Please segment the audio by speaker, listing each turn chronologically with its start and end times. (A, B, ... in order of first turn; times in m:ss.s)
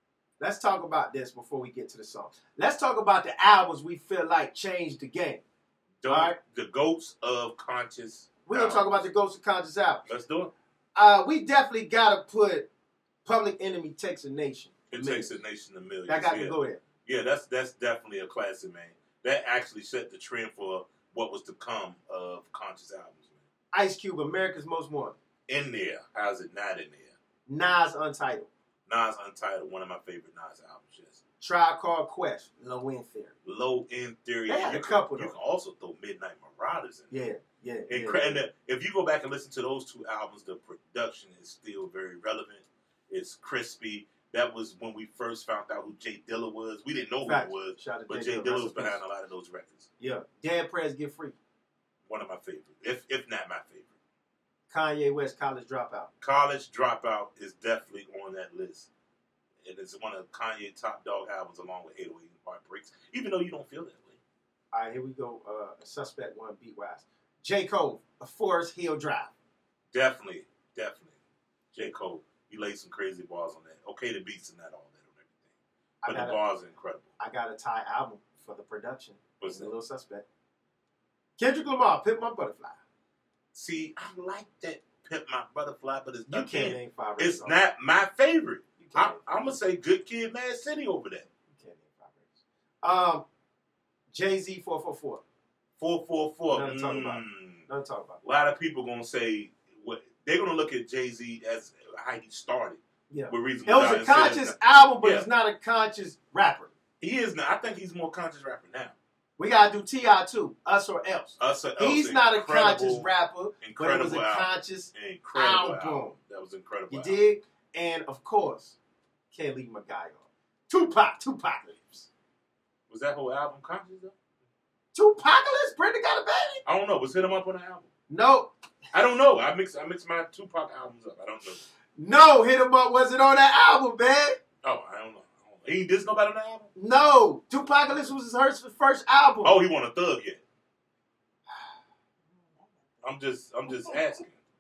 0:00.4-0:05.4 A
0:06.0-0:09.1 B
0:06.1-0:06.4 A
0:08.5-0:10.0 A
0:10.1-0:10.5 B
0:11.0-0:12.7 A
0:13.2-0:15.3 A
0:14.9-0:23.4 B
0:16.1-0:16.8 A
0:23.7-0:25.2 A
0:25.5-0:27.1 B
0:27.5-0:28.5 A
0:28.9-0:31.2 B
0:31.4-0:33.3 A
0:33.4-0:37.1 B
0:34.5-0:35.4 A
0:37.1-0:38.4 A
0:37.9-0:49.9 B
0:47.2-0:49.0 A
0:50.0-0:51.4 A
0:52.1-0:54.0 B
0:54.7-0:56.1 A
0:56.2-0:58.9 B
0:59.6-1:04.2 B
1:04.7-1:09.3 A
1:09.9-1:11.2 B
1:11.7-1:15.5 B
1:16.0-1:16.4 A
1:16.0-1:17.1 B
1:17.2-1:20.2 A
1:19.4-1:19.7 B
1:21.4-1:22.8 A
1:23.5-1:31.3 B
1:26.3-1:27.6 A
1:28.8-1:29.6 A
1:31.5-1:33.2 A
1:34.1-1:35.2 A
1:35.8-1:37.6 B
1:36.5-1:38.2 A
1:38.2-1:45.3 B
1:43.1-1:46.7 A
1:47.0-1:48.9 B
1:49.4-1:56.1 A
1:51.4-1:53.1 B
1:53.6-1:57.2 B
1:56.9-1:58.8 A
1:59.3-2:02.1 A
2:02.9-2:04.1 B
2:04.9-2:06.6 A
2:06.6-2:07.9 B
2:08.1-2:08.5 A
2:08.9-2:11.7 B
2:12.0-2:14.4 A
2:14.6-2:16.7 B
2:16.8-2:19.5 A
2:19.4-2:20.4 B
2:23.0-2:24.4 B